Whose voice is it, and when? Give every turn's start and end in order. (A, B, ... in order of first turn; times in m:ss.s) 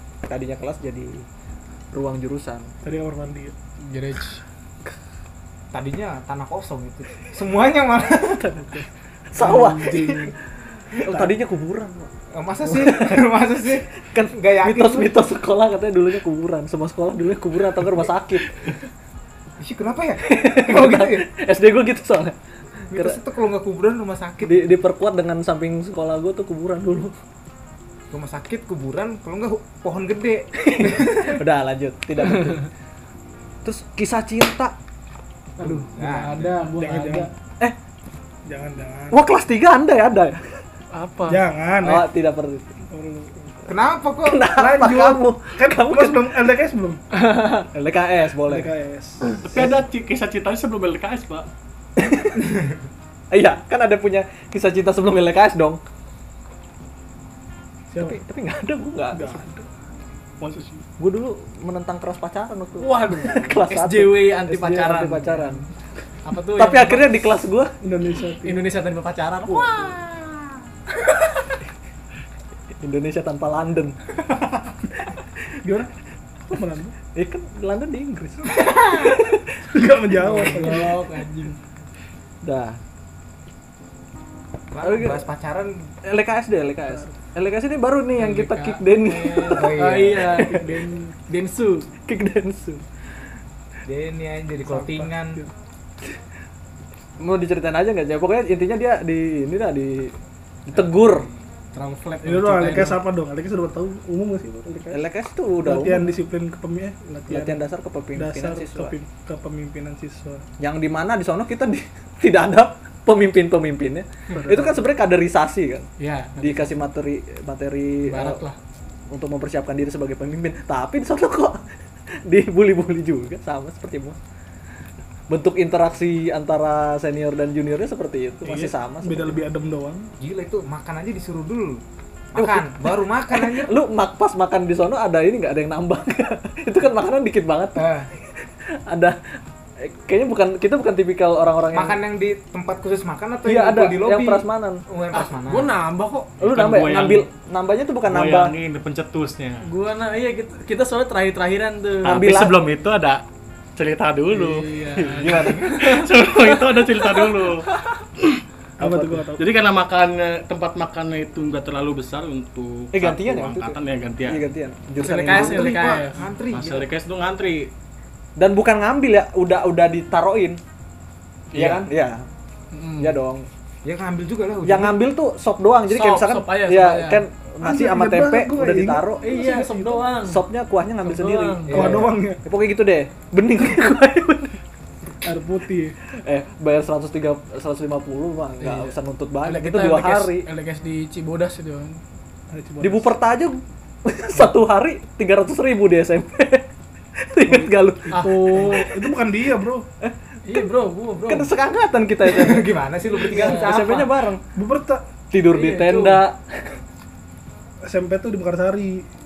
0:00.3-0:01.3 A
0:01.9-0:02.7 A
0:02.8-0:03.6 B
0:03.8-0:04.4 C
0:05.7-0:08.4 D
0:08.0-0:10.3 A
0:09.4-0:10.3 B
0:10.9-0:12.1 A
0:11.0-0:11.3 D
0:12.3-0:15.2 D
0:12.7-0:18.6 A
0:19.6-0:21.3 D
0:20.2-0:22.4 A
0:22.9-0:24.8 D
0:22.9-0:23.2 A
0:24.4-0:27.1 A
0:28.1-0:31.4 D
0:30.6-0:32.7 A
0:33.6-0:34.8 A
0:35.6-0:37.3 C
0:35.6-0:36.6 D
0:36.8-0:37.3 B
0:38.5-0:39.2 B
0:39.1-0:40.6 A
0:40.9-0:41.4 C
0:41.2-0:42.1 B
0:41.8-0:42.7 A
0:42.9-0:43.5 B
0:43.7-0:44.5 D
0:44.2-0:46.3 A
0:44.4-0:47.0 B
0:47.1-0:48.7 A
0:48.5-0:49.6 B
0:49.4-0:51.5 E
0:52.0-0:52.4 A
0:52.4-0:52.8 D
0:53.3-0:55.8 A
0:57.9-0:58.2 B
0:58.0-0:59.5 A
0:59.1-0:59.7 B
1:00.4-1:00.8 B
1:01.0-1:05.7 A
1:02.8-1:05.6 C
1:06.2-1:07.2 C
1:06.6-1:07.7 A
1:07.8-1:08.7 B
1:08.4-1:10.3 C
1:10.9-1:11.5 C
1:12.8-1:14.0 A
1:15.6-1:15.9 B
1:16.5-1:17.0 B
1:17.1-1:19.6 A
1:19.7-1:21.0 B
1:20.3-1:21.6 C
1:22.4-1:22.8 A
1:24.7-1:25.9 D
1:24.8-1:25.3 A
1:26.0-1:30.8 A
1:28.2-1:31.9 C
1:29.5-1:30.4 D
1:32.0-1:32.8 A
1:33.8-1:35.4 D
1:34.7-1:35.5 B
1:37.2-1:40.1 A
1:40.7-1:41.3 A
1:40.7-1:41.4 D
1:41.7-1:43.0 C
1:42.2-1:45.0 B
1:44.9-1:46.1 A
1:45.6-1:47.6 B
1:47.3-1:48.9 A
1:48.2-1:50.4 B
1:50.6-1:55.9 A
1:54.4-1:54.7 B
1:56.0-1:56.8 C
1:56.4-1:58.4 A
1:58.0-1:58.6 C
1:59.1-2:01.6 A
2:02.2-2:04.2 A
2:05.3-2:09.4 A
2:08.4-2:10.1 B
2:10.2-2:11.8 D
2:12.3-2:13.8 D
2:12.4-2:17.9 A
2:17.8-2:18.1 D
2:18.7-2:19.2 A
2:19.8-2:22.0 A
2:21.7-2:25.8 D
2:23.4-2:24.8 A
2:25.1-2:26.4 C
2:26.4-2:27.3 E
2:26.4-2:28.5 A
2:28.1-2:29.7 E
2:29.6-2:32.2 C
2:32.0-2:32.6 A
2:32.0-2:33.2 E
2:33.8-2:38.4 E
2:34.3-2:36.1 C
2:35.0-2:36.0 A
2:38.8-2:39.5 B
2:38.8-2:39.2 A
2:39.4-2:44.5 E
2:42.9-2:45.9 A
2:45.0-2:46.3 C
2:45.2-2:46.9 D
2:46.5-2:47.7 E
2:48.4-2:50.6 A
2:51.5-2:51.8 E
2:51.5-2:52.3 A
2:52.7-2:53.2 C
2:53.0-2:53.5 A
2:53.8-2:55.1 D
2:54.6-2:59.2 A
2:55.9-2:57.2 C
2:57.6-3:00.1 B
2:59.2-3:00.4 C
3:00.2-3:04.5 A
3:01.0-3:02.1 C
3:01.7-3:02.1 D
3:01.7-3:02.4 B
3:05.2-3:06.0 B
3:06.2-3:10.5 A
3:08.6-3:12.0 C
3:12.5-3:13.2 B
3:12.8-3:18.9 A
3:17.5-3:19.8 B
3:18.1-3:18.9 C
3:20.0-3:20.7 A
3:20.5-3:21.5 C
3:21.2-3:24.4 A
3:22.2-3:24.1 D
3:23.2-3:24.0 C
3:24.6-3:25.0 B
3:25.3-3:26.4 A
3:25.5-3:26.2 C
3:27.8-3:29.1 B